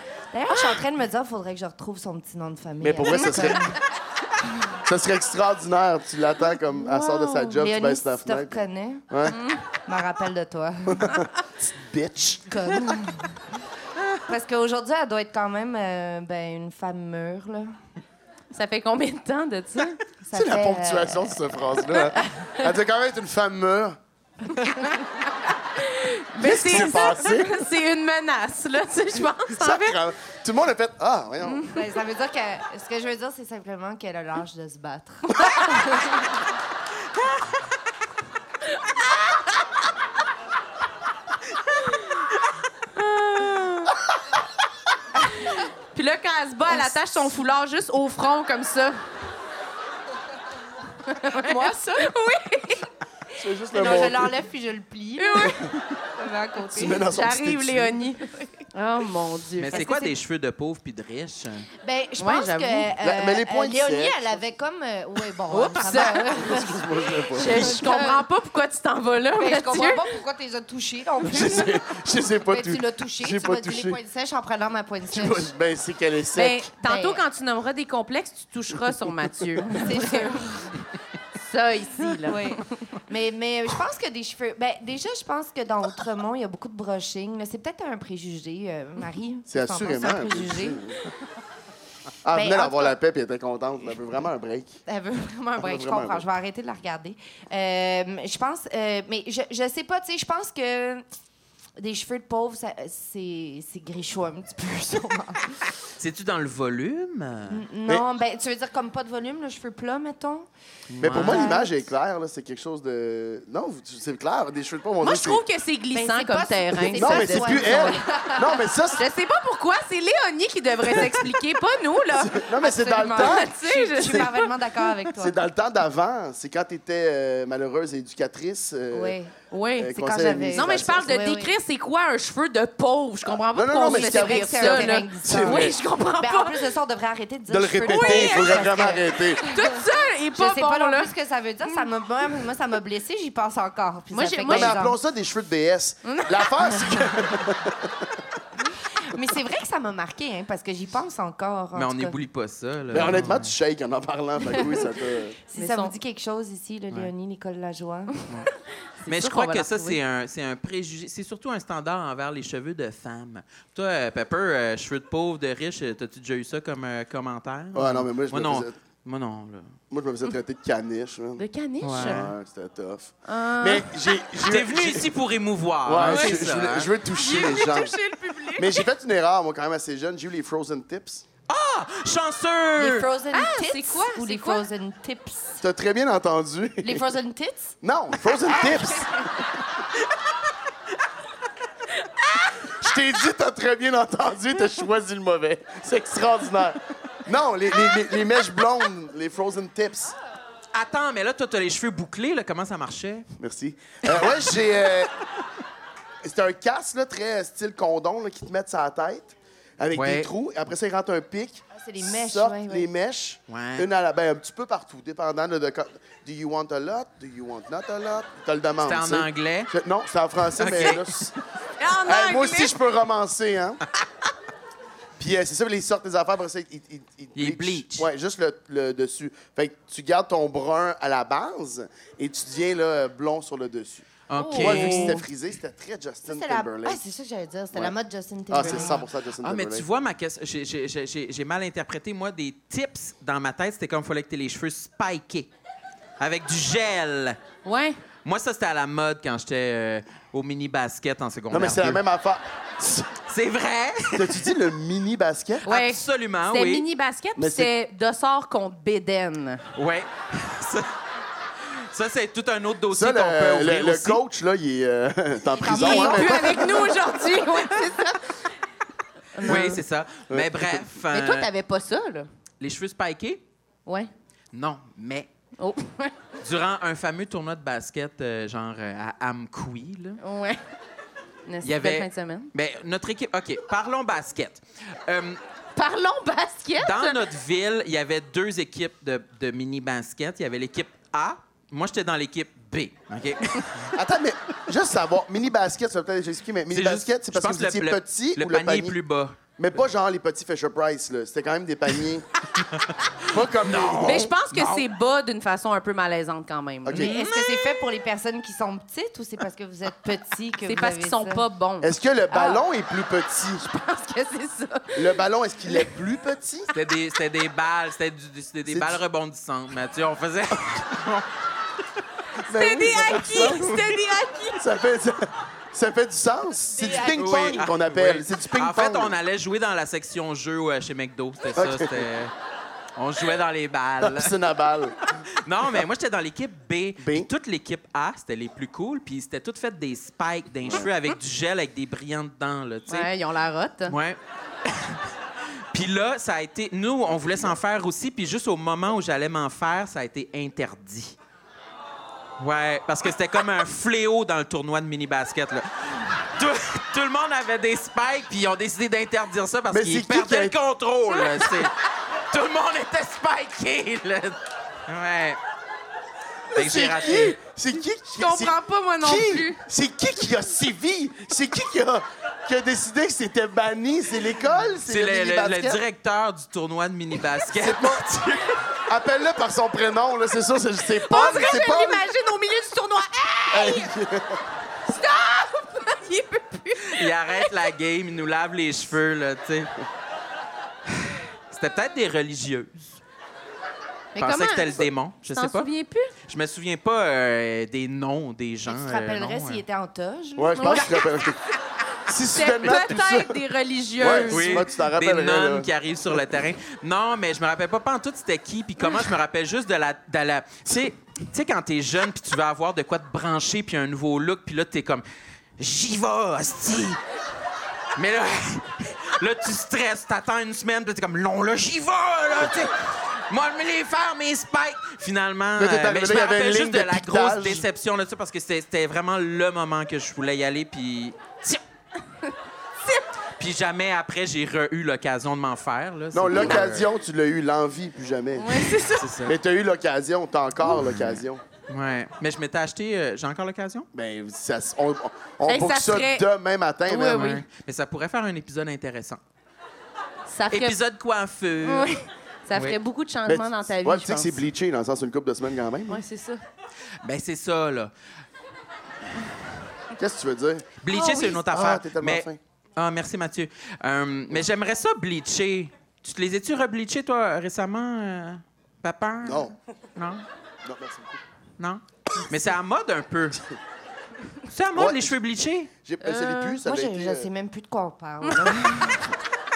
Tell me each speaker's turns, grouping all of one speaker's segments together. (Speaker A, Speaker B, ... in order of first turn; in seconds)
Speaker A: 0.3-3.8, 6.7-9.1, 9.7-11.3, 12.5-13.4, 14.1-17.8, 20.2-21.4, 31.7-36.2, 46.7-46.9, 51.2-52.1, 53.7-57.0, 59.8-60.0, 61.8-68.2, 69.3-71.8, 72.3-75.5, 76.8-77.2, 79.8-80.8, 82.2-90.8, 92.3-92.9, 94.8-101.0, 101.8-105.7, 107.5-110.5, 111.0-111.8, 115.9-118.6, 122.5-125.3, 128.9-131.6, 133.8-139.8, 140.3-145.0, 148.6-152.2, 154.4-154.8, 155.5-158.4, 182.8-185.6, 186.8-189.3, 211.7-212.8, 236.2-239.0, 265.5-267.8, 306.9-311.4, 398.7-400.9, 476.6-479.0
Speaker B: 2.8-3.8, 4.8-9.4, 10.9-12.9, 20.3-24.0, 26.4-27.7, 29.5-31.7, 53.3-54.3, 56.7-58.0, 63.0-64.4, 66.3-67.8, 71.2-74.0, 75.1-76.7, 89.5-91.0, 92.2-94.8, 95.6-96.2, 111.0-115.4, 116.9-119.0, 122.1-124.3, 125.1-129.2, 129.8-131.2, 133.5-135.8, 137.5-139.4, 144.4-148.2, 152.9-155.4, 167.7-168.7, 169.9-175.1, 175.8-178.0, 178.5-181.2, 185.6-187.0, 187.8-189.2, 192.6-200.1, 203.4-205.1, 206.2-221.3, 222.0-223.8, 225.2-237.0, 238.5-239.8, 251.5-253.1, 254.1-255.6, 257.4-257.7, 262.9-266.9, 270.3-270.8, 293.9-299.0, 299.6-302.3, 303.2-304.3, 306.8-307.1, 311.8-313.6, 314.9-316.7, 318.7-319.0, 322.5-323.9, 324.6-329.1, 331.5-332.1, 334.0-334.9, 337.0-337.3, 347.2-347.5, 359.7-360.6, 366.5-375.8, 377.5-378.2, 378.8-382.0, 383.5-384.4, 400.4-401.4, 402.1-403.4, 404.0-406.2, 425.6-427.6, 436.1-441.4, 443.9-447.3, 453.2-456.0, 459.9-460.7, 461.5-462.4, 469.2-469.5, 470.6-471.2, 474.7-475.2, 475.8-477.3
Speaker C: 3.1-3.6, 9.3-9.6, 18.5-20.0, 24.6-24.9, 25.7-30.0, 31.4-31.7, 42.9-43.9, 45.9-49.0, 51.0-52.9, 55.2-55.7, 56.9-60.1, 62.2-62.9, 65.5-66.4, 67.3-70.1, 76.3-80.3, 81.3-82.6, 115.0-118.0, 119.0-122.4, 122.9-124.5, 129.5-129.9, 130.5-136.6, 137.8-141.1, 144.1-144.8, 146.0-147.1, 155.5-155.9, 159.0-160.0, 171.4-172.3, 173.2-174.1, 176.1-176.4, 177.1-178.9, 183.3-184.6, 192.0-192.4, 221.8-222.8, 234.3-235.2, 247.6-248.0, 255.6-259.6, 265.6-268.4, 269.3-269.8, 271.1-272.3, 273.9-274.1, 275.6-276.1, 280.2-280.6, 281.4-282.5, 285.7-287.3, 304.0-307.8, 310.6-312.6, 313.6-315.1, 322.5-324.6, 342.9-343.9, 361.2-361.5, 368.1-369.6, 381.0-383.9, 384.9-387.5, 394.1-396.1, 400.5-401.2, 402.3-404.7, 438.4-439.1, 445.5-446.2, 446.9-447.4, 450.3-450.8, 451.6-454.4, 455.9-456.4, 460.9-461.4, 476.0-476.6, 478.2-478.9
Speaker D: 59.6-61.7, 106.0-107.6, 110.9-111.5, 151.7-153.5, 159.0-169.8, 171.8-172.3, 174.4-176.9, 181.5-183.1, 200.7-203.3, 209.9-210.3, 213.5-213.9, 218.8-219.7, 220.6-221.3, 227.3-228.1, 234.3-235.2, 239.4-245.5, 246.2-247.4, 248.2-252.0, 253.2-254.5, 255.6-256.8, 259.7-260.9, 261.6-264.2, 269.4-271.5, 272.6-273.4, 274.5-275.3, 276.4-280.2, 281.6-285.4, 286.8-293.9, 296.7-299.4, 302.6-304.9, 316.7-321.3, 327.0-332.3, 332.9-334.4, 335.1-343.1, 343.9-345.1, 345.7-351.2, 352.4-361.7, 362.3-365.4, 366.5-367.4, 374.8-378.6, 386.8-389.7, 391.1-393.0, 394.2-395.7, 396.2-399.6, 404.2-415.0, 415.6-417.0, 417.9-431.6, 433.4-436.9, 438.9-439.3, 440.7-443.9, 447.1-449.2, 450.5-451.9, 457.0-457.9, 460.8-470.2, 471.6-473.4, 474.5-475.7